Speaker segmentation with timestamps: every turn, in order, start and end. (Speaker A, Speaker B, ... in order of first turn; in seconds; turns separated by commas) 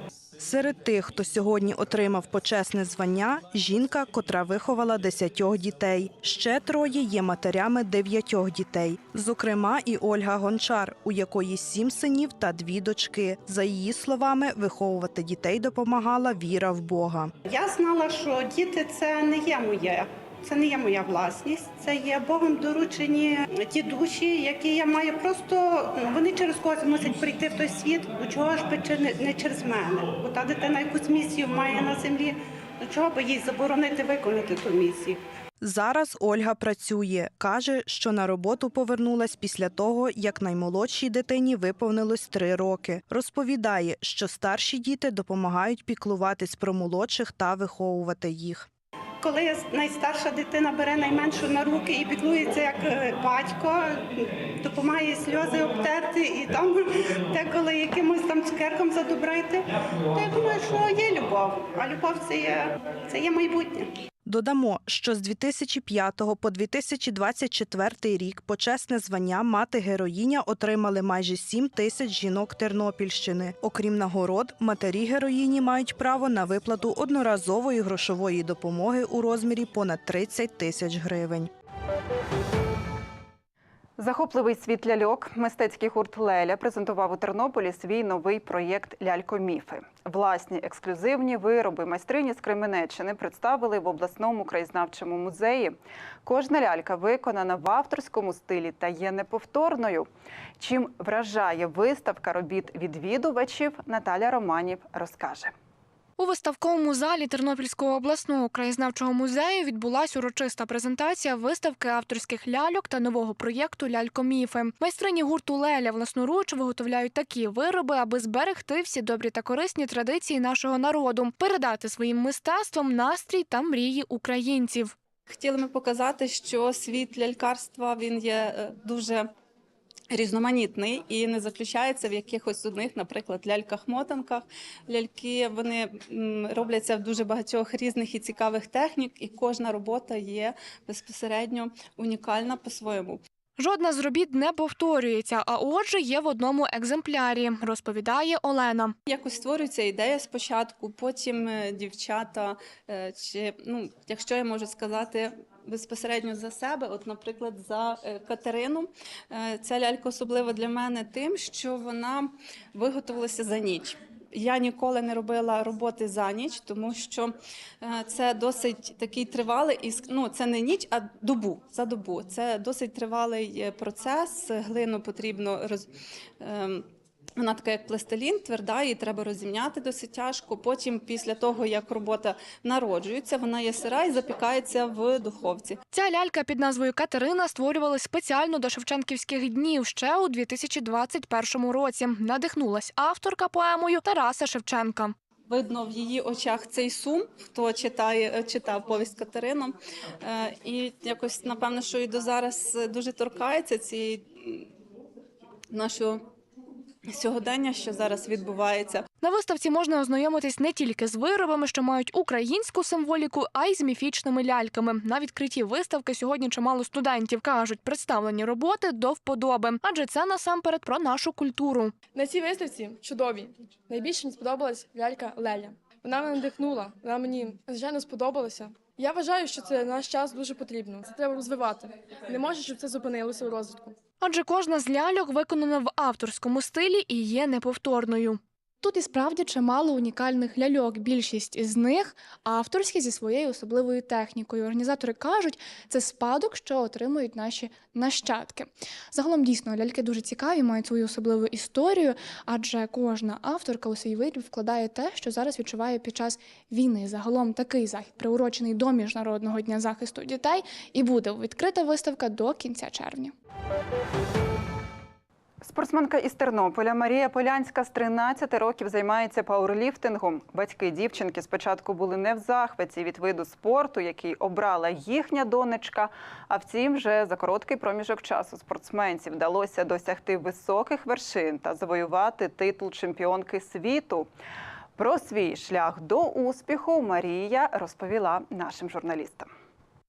Speaker A: 0.4-17.3, Speaker B: 17.4-35.2, Speaker A: 35.6-48.7, Speaker B: 49.2-63.9, Speaker A: 64.2-81.5, Speaker C: 84.0-100.1, Speaker C: 100.6-105.5, Speaker D: 106.2-124.9, Speaker E: 125.3-129.3, Speaker E: 130.1-143.2, Speaker D: 143.6-148.9, Speaker E: 149.1-175.9, Speaker E: 176.4-176.8, Speaker E: 177.4-185.8, Speaker D: 185.9-195.1, Speaker E: 195.5-204.6, Speaker E: 205.7-206.2, Speaker E: 207.1-209.0, Speaker D: 209.2-221.9, Speaker F: 222.1-233.9, Speaker D: 234.2-263.3, Speaker C: 265.6-284.3, Speaker C: 285.0-289.5